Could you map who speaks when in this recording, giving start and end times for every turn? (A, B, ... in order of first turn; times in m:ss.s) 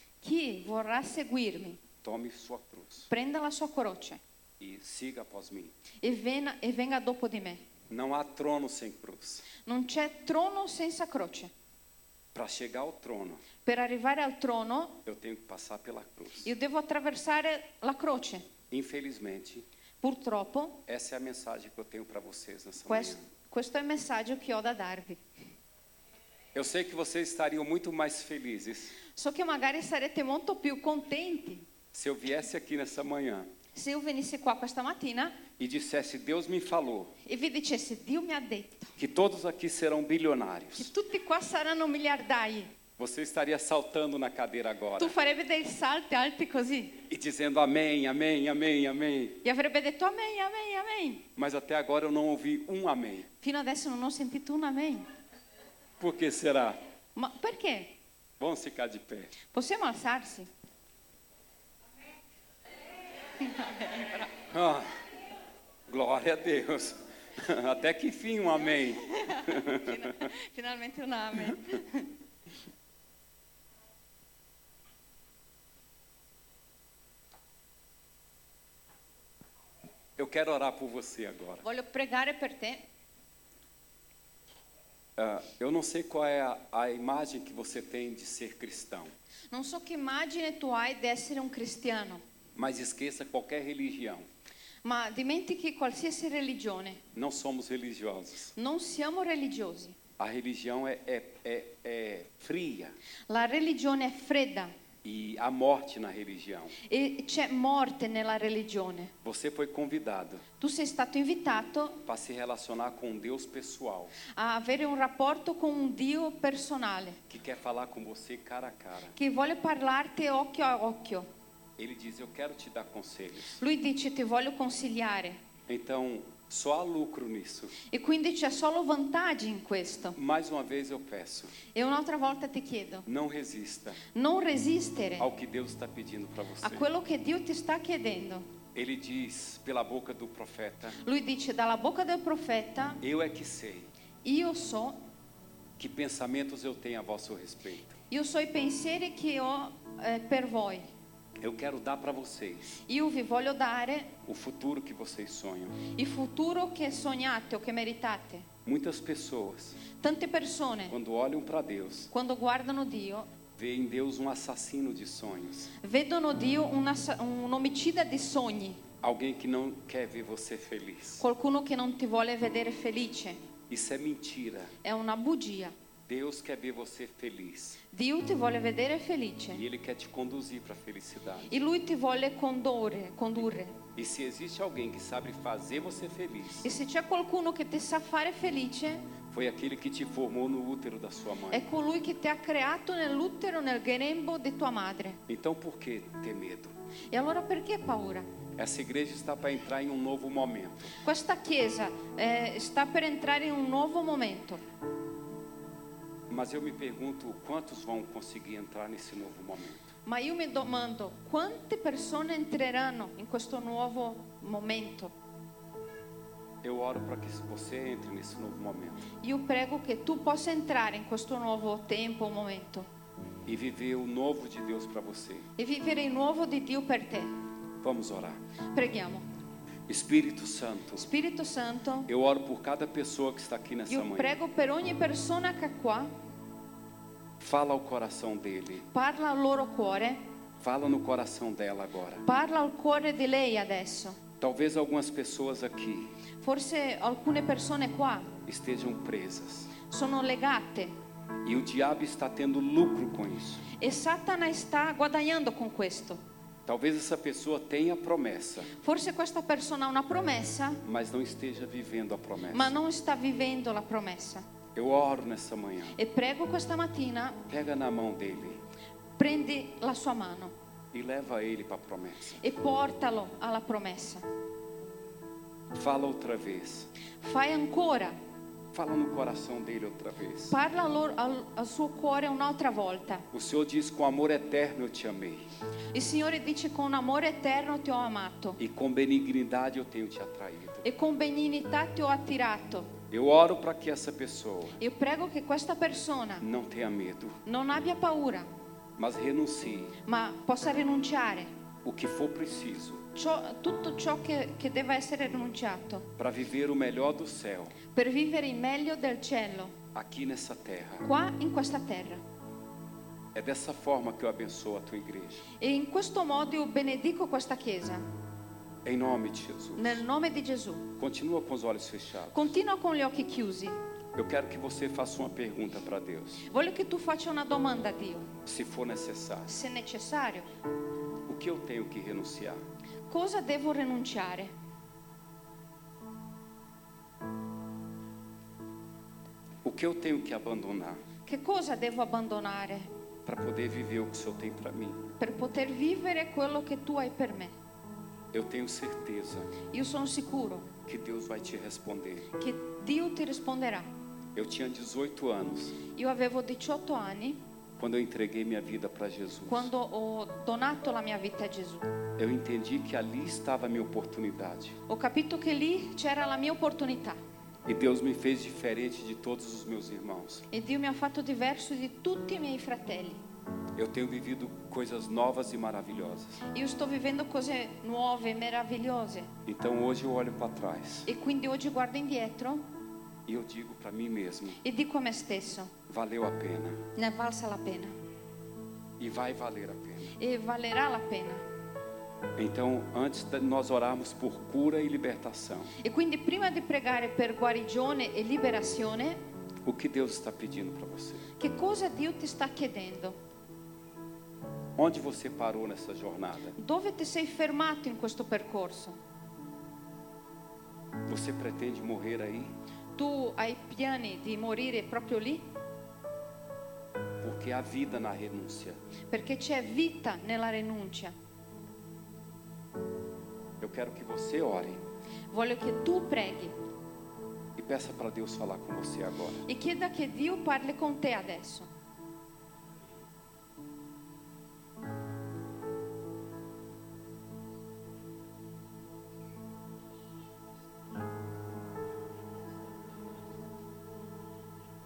0:00.2-0:01.8 A
0:02.0-0:03.1 B
0:03.1-0:04.2 A
0:04.6-0:05.8 B
0:06.0-0:07.6 A
0:07.9-0:09.5 B
0:09.6-0:11.5 A
0:12.3-0:13.5 B
0:13.6-0:15.0 A
0:15.0-0:16.5 B
0:16.4-0:18.5 A
0:18.7-0:19.7 B
0:20.0-0:20.8 A
0:20.8-0:23.2 B
0:22.9-0:25.2 A
0:26.5-0:29.0 B
0:29.1-0:31.7 A
0:31.9-0:33.5 B
0:33.7-0:35.4 A
0:35.6-0:37.2 B
0:37.2-0:39.0 A
0:39.0-0:40.9 B
0:40.8-0:42.7 A
0:43.0-0:45.2 B
0:45.0-0:47.0 A
0:47.1-0:49.4 B
0:49.4-0:51.3 A
0:51.4-0:53.3 B
0:53.4-0:55.1 A
0:56.0-0:56.8 B
0:57.2-0:58.0 A
0:58.4-0:59.3 B
0:59.5-1:00.5 A
1:03.4-1:04.3 A
1:04.5-1:05.0 B
1:05.9-1:10.2 B
1:09.0-1:12.1 A
1:20.2-1:21.6 B
1:21.6-1:22.8 A
1:25.2-1:29.1 B
1:29.5-1:32.2 A
1:32.6-1:34.3 B
1:34.8-1:37.0 A
1:37.2-1:38.6 B
1:38.6-1:40.0 A
1:40.2-1:43.0 B
1:43.3-1:44.7 A
1:45.0-1:46.8 B
1:46.8-1:49.1 A
1:49.2-1:50.4 B
1:50.6-1:52.0 A
1:52.0-1:54.2 B
1:54.3-1:57.2 A
1:57.3-1:59.2 B
1:59.2-2:01.3 A
2:01.8-2:03.6 B
2:03.6-2:05.4 A
2:05.7-2:07.8 B
2:07.8-2:10.2 A
2:10.2-2:11.6 B
2:11.7-2:13.1 A
2:13.1-2:14.0 B
2:14.1-2:15.3 A
2:15.2-2:16.9 B
2:16.6-2:18.5 A
2:18.8-2:21.0 B
2:21.0-2:23.0 A
2:23.0-2:23.9 B
2:24.2-2:25.0 A
2:25.8-2:28.0 B
2:28.1-2:30.9 A
2:31.4-2:32.8 B
2:32.9-2:34.2 A
2:34.3-2:35.8 B
2:35.9-2:38.5 A
2:38.6-2:39.8 B
2:39.9-2:41.0 A
2:40.9-2:42.1 B
2:42.1-2:43.3 A
2:43.6-2:45.7 B
2:45.8-2:48.8 A
2:49.0-2:51.2 B
2:51.2-2:53.4 A
2:53.7-2:54.8 B
2:54.8-2:55.8 A
2:56.1-2:57.8 B
2:57.9-2:59.6 A
2:59.5-3:01.6 B
3:01.5-3:03.8 A
3:04.0-3:06.7 B
3:06.6-3:09.1 A
3:09.3-3:11.7 B
3:11.5-3:15.2 A
3:15.3-3:16.7 B
3:17.1-3:18.3 A
3:18.6-3:21.0 B
3:21.0-3:24.6 A
3:26.3-3:29.9 B
3:30.0-3:35.1 A
3:36.6-3:39.0 B
3:39.2-3:42.9 A
3:43.5-3:45.5 B
3:45.6-3:47.3 A
3:47.8-3:48.4 B
3:48.7-3:49.2 A
3:49.9-3:51.1 B
3:51.0-3:52.1 A
3:52.1-3:54.4 B
3:53.9-3:56.1 A
3:57.4-3:58.9 B
3:58.9-4:00.2 A
4:00.6-4:02.3 B
4:02.2-4:04.2 A
4:04.4-4:06.1 B
4:06.4-4:08.3 A
4:08.4-4:09.7 B
4:09.9-4:10.9 A
4:11.4-4:13.6 B
4:13.8-4:16.2 A
4:16.7-4:18.7 B
4:18.7-4:20.8 A
4:20.8-4:22.8 B
4:22.5-4:24.4 A
4:24.8-4:26.0 B
4:26.0-4:27.4 A
4:27.5-4:28.6 B
4:29.2-4:30.5 A
4:30.9-4:32.4 B
4:32.4-4:34.2 A
4:35.7-4:36.9 B
4:37.2-4:38.2 A
4:38.7-4:40.6 B
4:40.5-4:43.3 A
4:43.3-4:45.5 B
4:45.9-4:48.6 A
4:48.6-4:50.8 B
4:50.8-4:53.0 A
4:53.1-4:54.8 B
4:54.8-4:56.4 A
4:56.4-4:57.4 B
4:57.4-4:58.5 A
4:59.0-5:00.0 B
5:00.0-5:01.5 A
5:01.8-5:03.1 B
5:03.2-5:06.1 A
5:06.2-5:07.8 B
5:07.9-5:09.8 A
5:09.9-5:11.1 B
5:11.0-5:12.2 A
5:13.3-5:15.4 B
5:15.6-5:18.1 A
5:18.8-5:20.0 B
5:19.8-5:20.9 A
5:21.0-5:22.4 B
5:22.3-5:23.8 A
5:24.2-5:26.4 B
5:26.5-5:28.3 A
5:28.4-5:29.5 B
5:29.5-5:30.5 A
5:31.3-5:32.6 B
5:33.1-5:34.5 A
5:39.6-5:41.0 B
5:41.2-5:42.9 A
5:43.2-5:45.1 B
5:45.2-5:47.5 A
5:48.3-5:49.5 B
5:49.7-5:50.7 A
5:50.8-5:52.3 B
5:52.4-5:53.9 A
5:54.4-5:55.8 B
5:55.9-5:57.4 A
5:57.8-5:59.7 B
5:59.5-6:01.8 A
6:02.2-6:04.8 B
6:04.9-6:07.2 A
6:07.6-6:10.5 B
6:10.5-6:13.2 A
6:13.8-6:16.4 B
6:16.5-6:19.3 A
6:19.5-6:21.1 B
6:21.1-6:22.7 A
6:23.3-6:24.6 B
6:24.6-6:25.7 A
6:25.9-6:26.9 B
6:27.0-6:28.0 A
6:29.0-6:30.2 B
6:30.2-6:31.4 A
6:32.4-6:35.7 B
6:35.8-6:39.2 A
6:39.6-6:41.3 B
6:41.4-6:43.2 A
6:44.8-6:46.6 B
6:46.6-6:49.0 A
6:51.1-6:52.5 B
6:53.0-6:55.5 A
6:57.2-6:58.8 B
6:59.1-7:01.1 A
7:03.6-7:04.8 B
7:05.3-7:06.6 A
7:07.6-7:09.5 B
7:09.5-7:11.7 A